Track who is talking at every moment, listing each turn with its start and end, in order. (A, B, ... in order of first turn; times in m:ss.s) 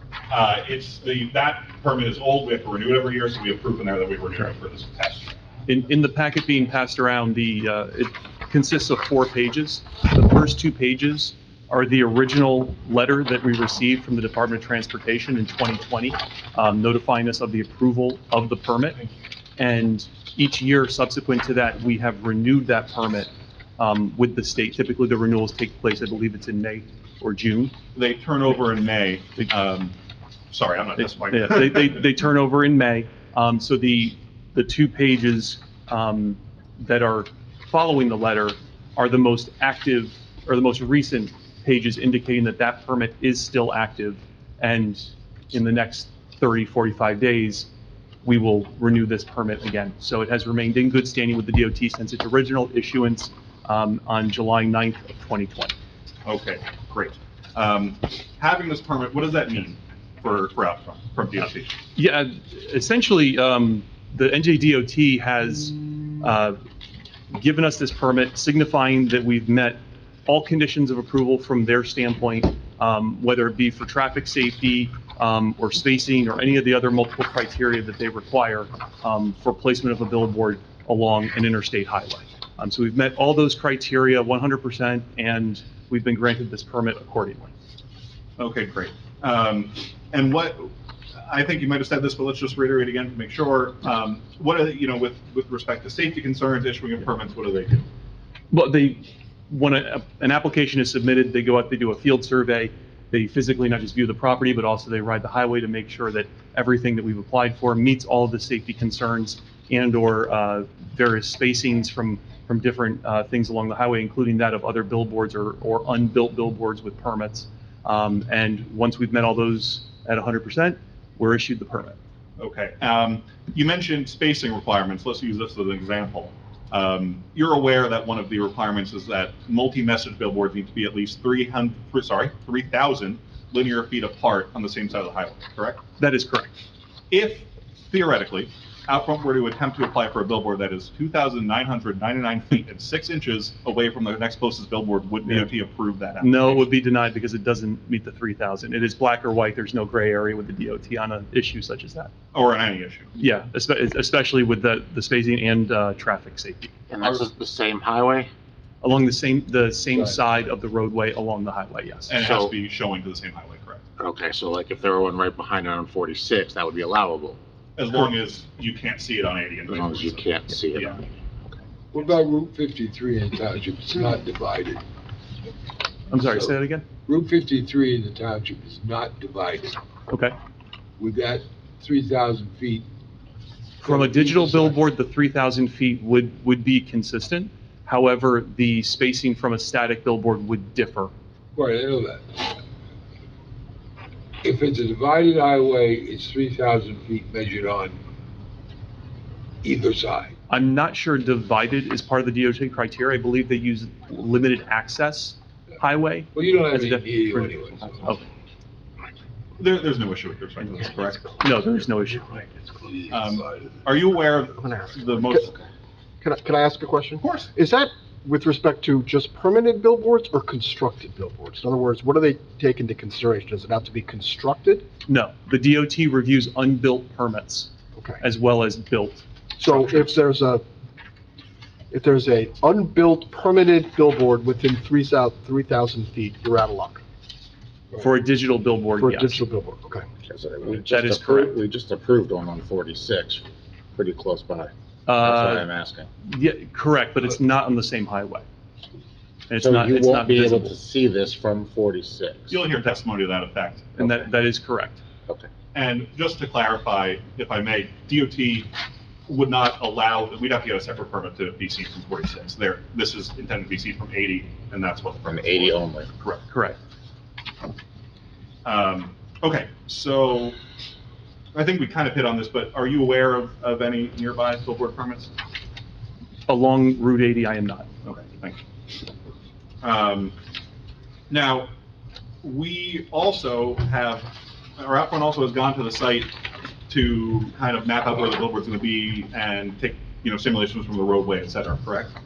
0:00.3-0:05.3 A
0:05.7-0:19.0 B
0:19.6-0:27.7 B
0:28.0-0:30.0 A
0:30.5-0:32.0 A
0:31.0-0:47.7 B
0:48.2-0:55.8 B
0:56.2-1:01.8 A
1:02.0-1:06.6 B
1:07.3-1:27.5 B
1:28.4-1:30.7 A
1:31.3-1:37.9 A
1:38.5-2:02.0 B
2:02.4-2:15.8 A
2:16.0-2:16.5 B
2:17.1-2:26.7 A
2:26.2-2:32.1 B
2:32.3-2:33.1 A
2:33.2-2:36.7 B
2:36.9-2:38.3 C
2:38.8-2:42.1 B
2:39.8-2:40.4 D
2:42.1-2:43.9 A
2:42.2-2:42.5 C
2:44.0-2:47.4 C
2:47.8-2:51.0 A
2:49.7-2:51.6 C
2:51.9-2:54.8 D
2:56.1-2:56.8 B
2:56.1-2:56.5 D
2:57.1-2:59.8 D
3:00.1-3:00.4 B
3:01.0-3:02.9 D
3:03.8-3:11.1 B
3:03.8-3:04.8 D
3:11.6-3:12.6 D
3:14.4-3:18.0 D
3:19.6-3:20.3 D
3:20.5-3:28.2 B
3:26.3-3:28.0 D
3:29.6-3:31.4 A
3:31.4-3:32.3 B
3:32.3-3:33.9 D
3:33.1-3:35.5 A
3:34.6-3:35.5 E
3:36.2-3:44.9 E
3:37.2-3:37.5 A
3:45.1-3:47.7 B
3:48.0-3:48.2 E
3:48.2-3:50.0 B
3:49.6-3:50.6 E
3:51.9-3:57.0 E
3:58.0-3:59.4 B
3:59.0-4:00.0 E
4:00.3-4:06.1 C
4:00.8-4:01.6 B
4:05.1-4:05.7 B
4:06.2-4:08.5 B
4:09.5-4:10.8 B
4:09.5-4:12.6 C
4:12.5-4:14.0 A
4:14.0-4:15.0 B
4:15.7-4:18.7 A
4:19.3-4:26.4 A
4:25.3-4:26.1 C
4:26.5-4:26.8 B
4:28.6-4:30.6 A
4:31.5-4:35.3 A
4:36.5-4:37.9 B
4:38.0-4:38.6 A
4:39.8-4:40.4 A
4:41.3-4:41.7 A
4:42.4-4:46.3 A
4:46.9-4:52.1 A